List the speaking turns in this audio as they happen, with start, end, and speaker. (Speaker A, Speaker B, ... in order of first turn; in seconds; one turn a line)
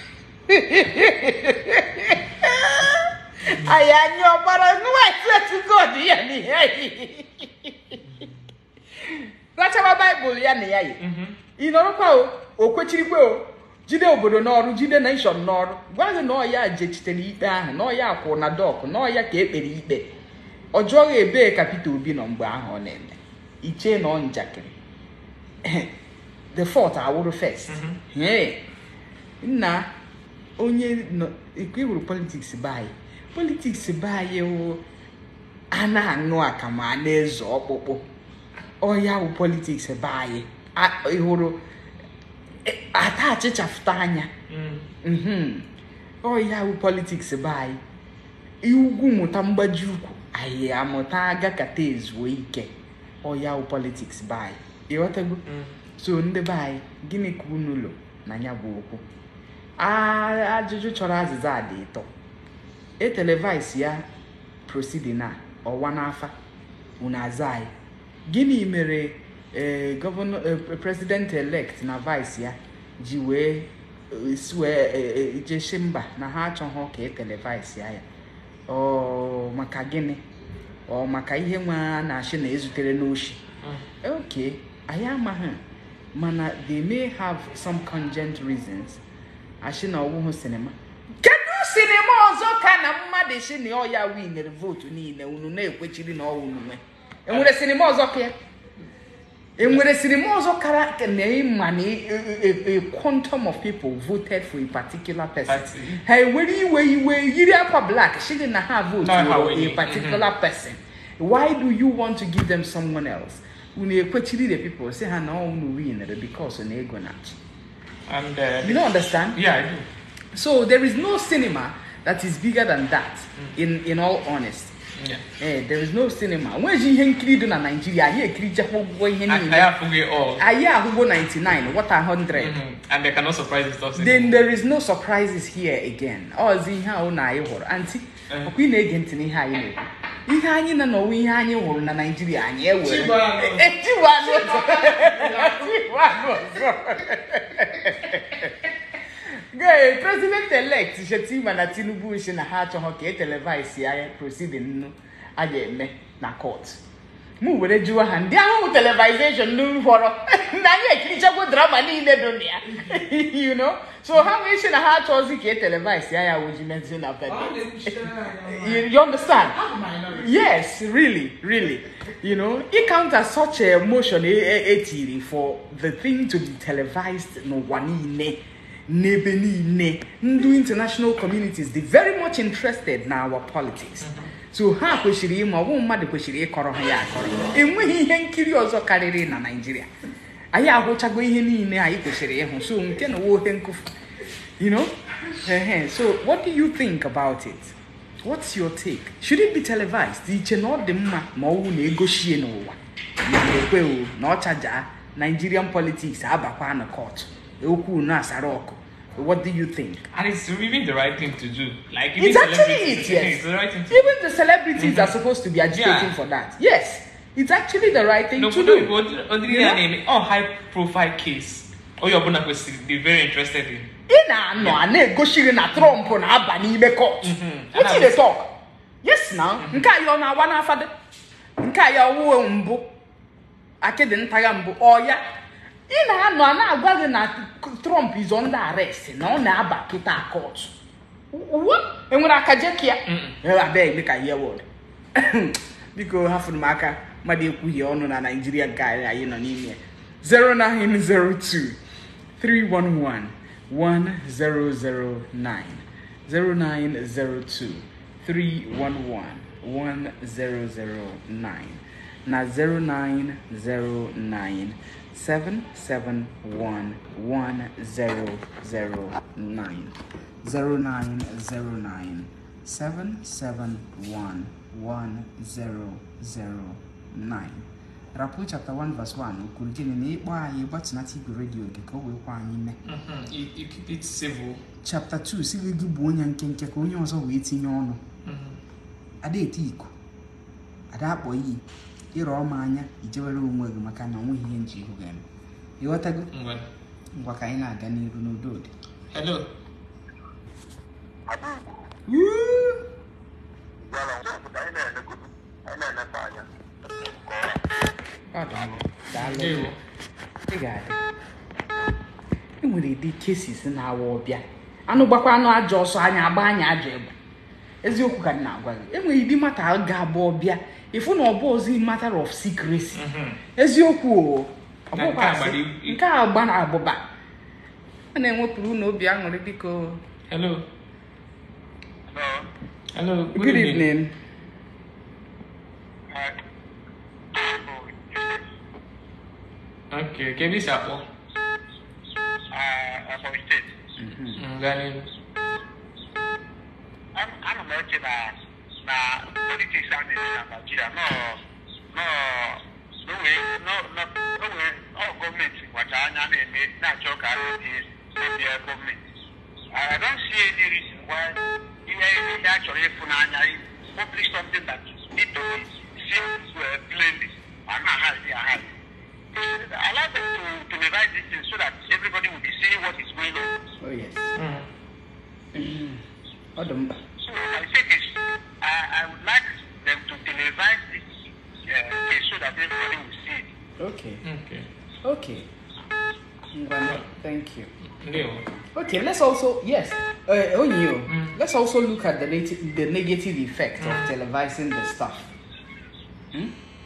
Speaker A: 0.5-8.0
Speaker A: 9.1-11.0
Speaker B: 11.0-11.4
Speaker A: 11.6-20.1
Speaker A: 20.7-24.7
Speaker A: 25.6-25.9
Speaker A: 26.5-28.6
Speaker B: 27.7-28.0
Speaker A: 29.4-29.9
Speaker A: 30.6-34.8
Speaker A: 35.7-38.0
Speaker A: 38.8-41.6
Speaker A: 42.6-44.3
Speaker B: 44.5-44.9
Speaker A: 45.0-45.7
Speaker A: 46.2-47.8
Speaker A: 48.6-55.4
Speaker B: 55.5-55.7
Speaker A: 56.0-59.0
Speaker A: 59.8-62.1
Speaker A: 63.0-64.1
Speaker A: 64.7-66.3
Speaker A: 67.0-67.7
Speaker A: 68.3-78.0
Speaker A: 78.7-80.2
Speaker A: 80.9-83.4
Speaker A: 84.0-85.6
Speaker A: 86.1-89.0
Speaker A: 89.6-98.3
Speaker A: 99.6-117.4
Speaker B: 105.5-106.0
Speaker B: 109.0-110.3
Speaker B: 118.1-119.9
Speaker A: 118.6-119.4
Speaker A: 120.3-124.8
Speaker B: 125.0-125.2
Speaker A: 125.4-129.7
Speaker B: 129.3-130.4
Speaker A: 130.4-132.6
Speaker B: 132.3-134.4
Speaker A: 134.0-148.7
Speaker B: 142.8-145.9
Speaker A: 149.3-156.8
Speaker A: 157.4-189.9
Speaker B: 167.3-168.8
Speaker B: 169.7-170.0
Speaker B: 184.0-184.3
Speaker A: 190.5-193.9
Speaker A: 194.6-210.1
Speaker B: 210.1-214.2
Speaker A: 212.2-219.8
Speaker B: 214.8-215.1
Speaker B: 215.7-216.1
Speaker B: 218.4-223.9
Speaker A: 224.1-230.9
Speaker B: 227.2-228.2
Speaker A: 231.6-232.9
Speaker A: 233.8-235.3
Speaker A: 235.9-240.8
Speaker A: 241.3-244.7
Speaker B: 243.1-243.4
Speaker A: 245.2-251.8
Speaker A: 252.4-282.8
Speaker B: 282.9-284.6
Speaker A: 284.8-288.0
Speaker B: 288.2-288.6
Speaker A: 289.2-289.9
Speaker A: 290.9-291.6
Speaker A: 292.1-295.2
Speaker A: 295.8-296.3
Speaker B: 296.3-296.7
Speaker A: 297.1-298.7
Speaker B: 299.1-299.5
Speaker A: 302.1-302.9
Speaker C: 303.9-307.6
Speaker A: 308.3-309.7
Speaker B: 309.1-309.8
Speaker A: 310.5-311.0
Speaker A: 312.6-317.1
Speaker A: 317.8-323.0
Speaker B: 322.9-323.4
Speaker A: 323.6-327.0
Speaker B: 324.9-326.0
Speaker A: 328.1-330.0
Speaker B: 330.3-330.7
Speaker C: 332.1-332.5
Speaker B: 332.9-333.9
Speaker A: 333.4-334.1
Speaker C: 336.1-336.4
Speaker C: 337.3-338.4
Speaker B: 339.9-341.1
Speaker C: 342.5-343.7
Speaker A: 344.0-344.4
Speaker B: 344.4-345.1
Speaker C: 347.1-351.4
Speaker C: 351.9-359.0
Speaker C: 359.7-368.7
Speaker C: 369.3-373.5
Speaker A: 373.8-374.3
Speaker B: 374.4-374.7
Speaker A: 375.5-376.0
Speaker A: 376.6-377.0
Speaker C: 377.2-381.0
Speaker C: 381.6-383.5
Speaker A: 383.8-384.2
Speaker B: 384.2-384.7
Speaker A: 385.0-385.5
Speaker A: 386.5-387.7
Speaker B: 388.0-388.5
Speaker A: 388.7-395.3
Speaker B: 391.1-391.3
Speaker B: 393.8-394.1